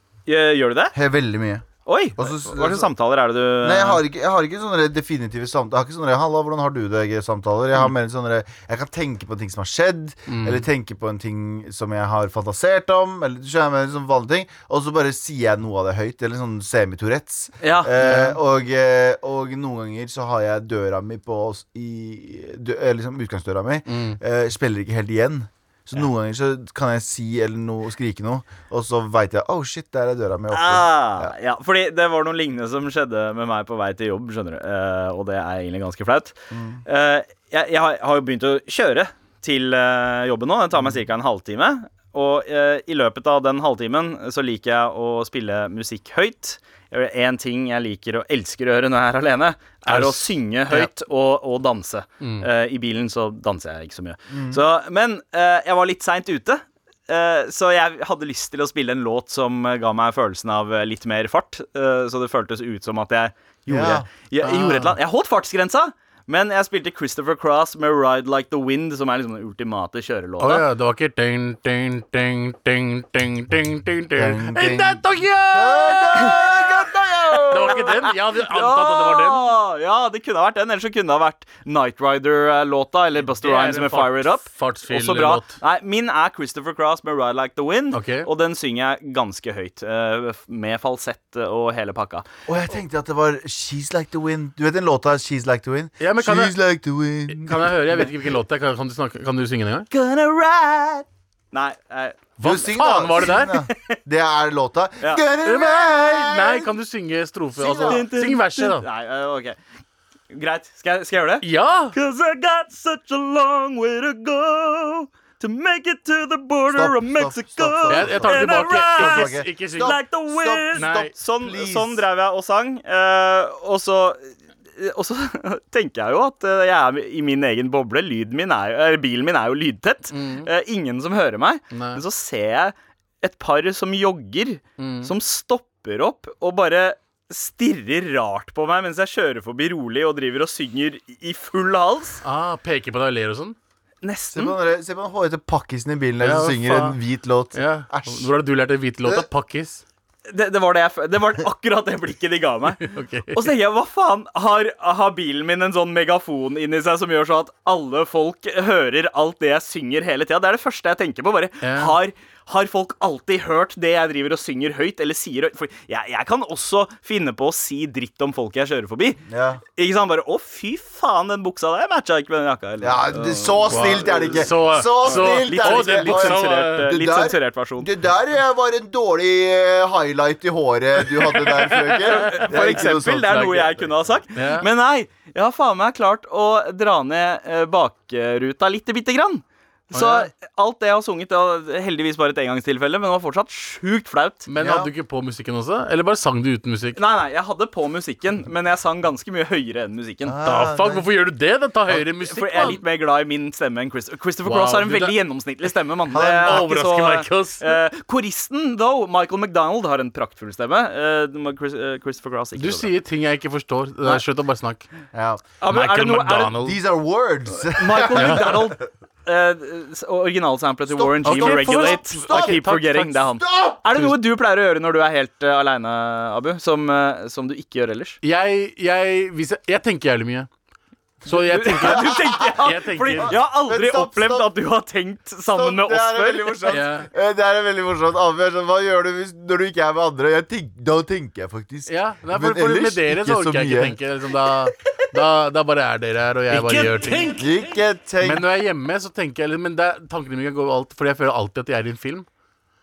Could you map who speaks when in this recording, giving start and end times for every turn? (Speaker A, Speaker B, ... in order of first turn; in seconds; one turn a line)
Speaker A: 0.3-1.0
Speaker B: 0.9-1.7
Speaker A: 1.9-4.0
Speaker B: 2.2-2.9
Speaker B: 3.6-31.3
Speaker C: 10.3-10.7
Speaker A: 17.6-17.9
Speaker C: 18.0-18.4
Speaker C: 23.9-24.2
Speaker A: 30.5-36.4
Speaker B: 36.5-36.8
Speaker A: 36.9-70.7
Speaker C: 49.9-50.9
Speaker C: 52.2-52.5
Speaker B: 54.3-54.6
Speaker B: 63.7-64.1
Speaker C: 64.4-65.0
Speaker C: 70.4-76.6
Speaker B: 74.2-77.8
Speaker A: 76.2-92.3
Speaker C: 77.5-79.5
Speaker C: 83.4-85.6
Speaker C: 87.9-88.3
Speaker B: 92.5-98.1
Speaker C: 96.0-96.5
Speaker C: 97.3-99.9
Speaker A: 99.9-102.2
Speaker C: 102.4-103.5
Speaker B: 102.4-106.7
Speaker A: 103.7-104.0
Speaker C: 105.4-108.9
Speaker B: 107.6-108.0
Speaker A: 107.8-109.6
Speaker A: 110.3-142.2
Speaker C: 111.4-112.0
Speaker B: 116.7-122.0
Speaker C: 117.9-120.0
Speaker C: 120.8-121.1
Speaker C: 130.1-130.5
Speaker C: 131.7-132.0
Speaker C: 134.8-135.1
Speaker C: 142.2-143.6
Speaker A: 144.0-144.6
Speaker B: 144.3-148.3
Speaker C: 146.2-147.0
Speaker C: 147.5-149.8
Speaker A: 150.3-169.2
Speaker C: 152.8-153.5
Speaker C: 161.6-161.9
Speaker B: 169.3-169.6
Speaker A: 169.8-174.5
Speaker B: 172.8-183.4
Speaker C: 173.7-176.9
Speaker A: 175.0-177.9
Speaker C: 181.3-184.7
Speaker A: 182.0-194.5
Speaker C: 189.9-190.3
Speaker C: 194.5-197.0
Speaker B: 194.6-194.9
Speaker A: 196.9-200.4
Speaker B: 200.3-201.1
Speaker C: 200.4-202.8
Speaker A: 202.2-212.9
Speaker C: 204.4-205.2
Speaker B: 206.1-206.7
Speaker C: 206.3-207.8
Speaker C: 212.6-214.9
Speaker B: 215.1-215.4
Speaker A: 215.6-216.6
Speaker C: 215.7-216.8
Speaker B: 216.6-218.8
Speaker A: 217.6-228.2
Speaker C: 218.2-218.6
Speaker B: 220.9-223.8
Speaker C: 221.2-223.2
Speaker C: 228.2-230.5
Speaker C: 231.2-233.4
Speaker A: 231.3-236.8
Speaker B: 231.8-232.5
Speaker B: 233.2-234.5
Speaker B: 235.5-244.0
Speaker C: 236.7-237.1
Speaker C: 241.9-247.5
Speaker A: 246.5-247.3
Speaker B: 247.3-248.4
Speaker C: 248.2-252.3